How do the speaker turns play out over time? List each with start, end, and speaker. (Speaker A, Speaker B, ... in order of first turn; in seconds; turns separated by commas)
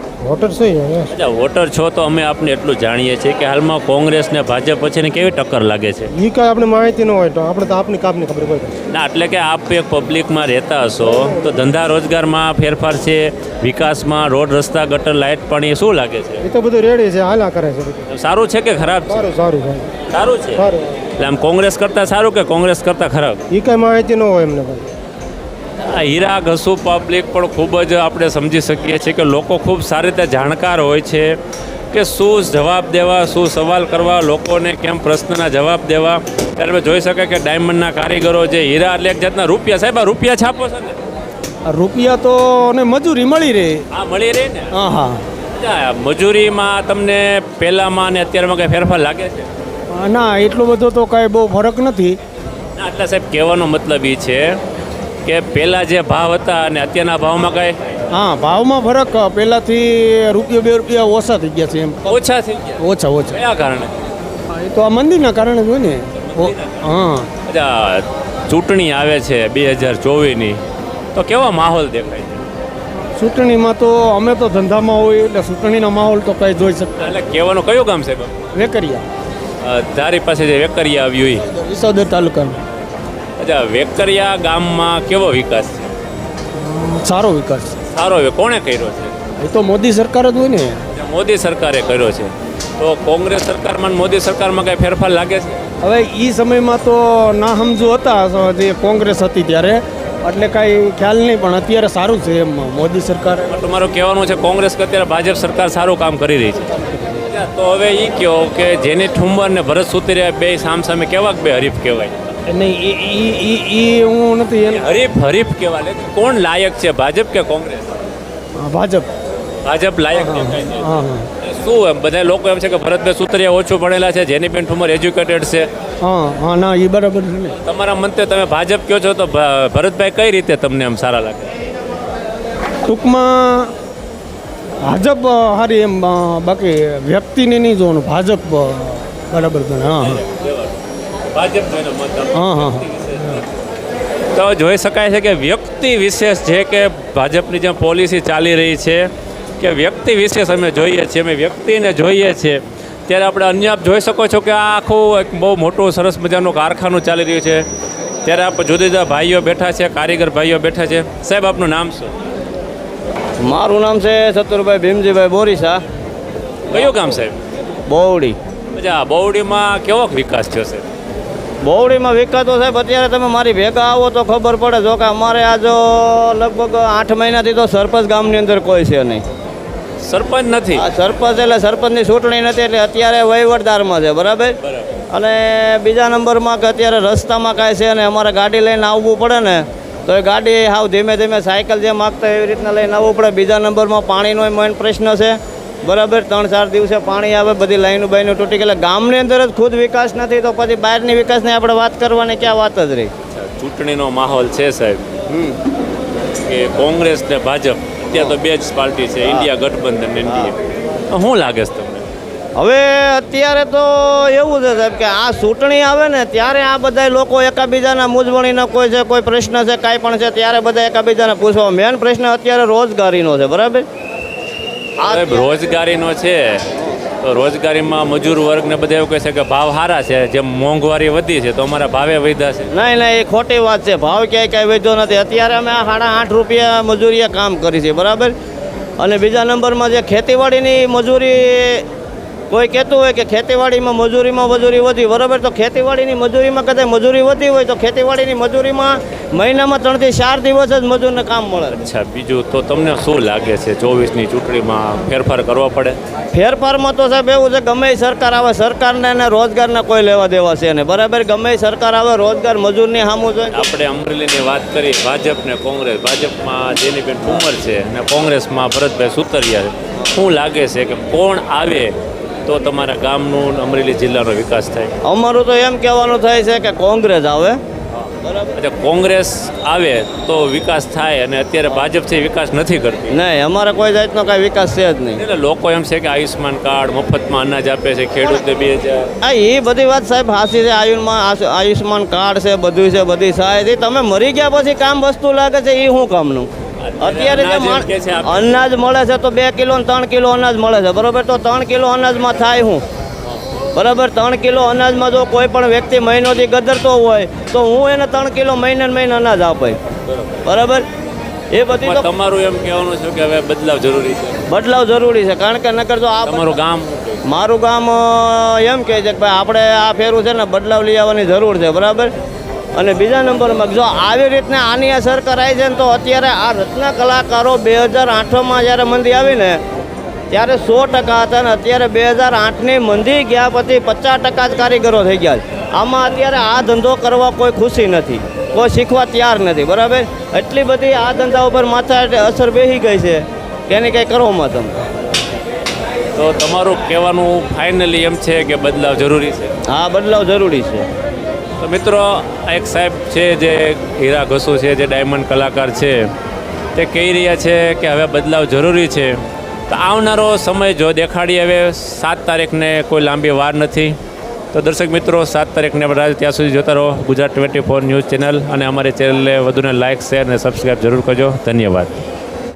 Speaker A: 0.2-1.1, Speaker B: 1.1-6.1, Speaker A: 6.1-8.7, Speaker B: 8.9-16.4, Speaker A: 11.2-11.5, Speaker A: 16.4-18.0, Speaker B: 18.1-19.3, Speaker A: 19.1-19.9, Speaker B: 20.1-20.6, Speaker A: 20.5-20.8, Speaker B: 21.2-23.4, Speaker A: 23.5-24.9, Speaker B: 25.8-31.4, Speaker B: 31.9-41.0, Speaker C: 41.6-43.8, Speaker B: 43.9-44.7, Speaker C: 44.7-45.2, Speaker B: 45.5-49.5, Speaker C: 49.9-52.2, Speaker B: 52.8-54.6, Speaker B: 55.2-57.8, Speaker C: 58.1-62.2, Speaker B: 62.0-63.9, Speaker C: 62.8-63.4, Speaker C: 64.5-67.3, Speaker B: 66.1-66.9, Speaker B: 67.4-70.6, Speaker B: 71.1-72.4, Speaker C: 73.1-77.1, Speaker B: 77.0-78.3, Speaker C: 78.5-79.0, Speaker B: 79.6-81.5, Speaker C: 81.5-82.6, Speaker B: 83.4-85.9, Speaker C: 86.5-87.8, Speaker B: 87.9-89.1, Speaker C: 89.4-90.8, Speaker B: 90.9-95.6, Speaker C: 95.8-103.5, Speaker B: 103.5-112.3, Speaker C: 112.5-114.9, Speaker B: 114.7-118.0, Speaker C: 118.6-119.1, Speaker B: 119.6-120.9, Speaker C: 120.1-121.3, Speaker B: 121.4-125.7, Speaker C: 126.0-127.5, Speaker B: 127.6-131.5, Speaker C: 132.9-133.7, Speaker C: 134.8-140.2, Speaker B: 140.0-140.8, Speaker B: 141.3-143.4, Speaker C: 142.3-143.4, Speaker B: 144.3-157.6, Speaker B: 158.2-162.1, Speaker D: 163.4-165.8, Speaker B: 166.7-167.4, Speaker D: 167.9-168.4, Speaker B: 168.7-170.9, Speaker D: 171.6-179.2, Speaker B: 180.0-180.8, Speaker D: 180.8-184.6, Speaker B: 184.6-184.9, Speaker D: 185.1-203.1, Speaker B: 203.3-205.0, Speaker D: 205.3-205.6, Speaker B: 206.4-210.6, Speaker D: 210.2-210.5, Speaker B: 211.1-212.0, Speaker D: 212.6-223.9, Speaker B: 225.0-226.7, Speaker D: 225.0-225.5, Speaker B: 227.2-232.7, Speaker D: 232.7-238.3, Speaker D: 239.0-241.9, Speaker D: 242.5-251.8, Speaker B: 251.7-256.0, Speaker D: 256.3-263.7, Speaker B: 263.5-271.9, Speaker B: 272.5-274.9, Speaker D: 275.1-277.6, Speaker B: 277.9-283.1, Speaker D: 278.2-278.5, Speaker D: 283.1-285.2, Speaker B: 285.2-289.1, Speaker D: 289.2-302.8, Speaker B: 296.8-298.6, Speaker D: 303.8-309.8, Speaker B: 310.0-310.4, Speaker D: 310.4-310.9, Speaker D: 311.5-312.1, Speaker B: 311.8-314.4, Speaker D: 314.5-316.6, Speaker B: 316.2-317.2, Speaker D: 317.3-322.1, Speaker D: 322.8-329.6, Speaker D: 330.3-344.8, Speaker B: 346.1-349.5, Speaker D: 349.7-350.9, Speaker B: 351.6-356.0, Speaker B: 356.8-359.1, Speaker B: 359.7-364.0, Speaker B: 364.5-372.0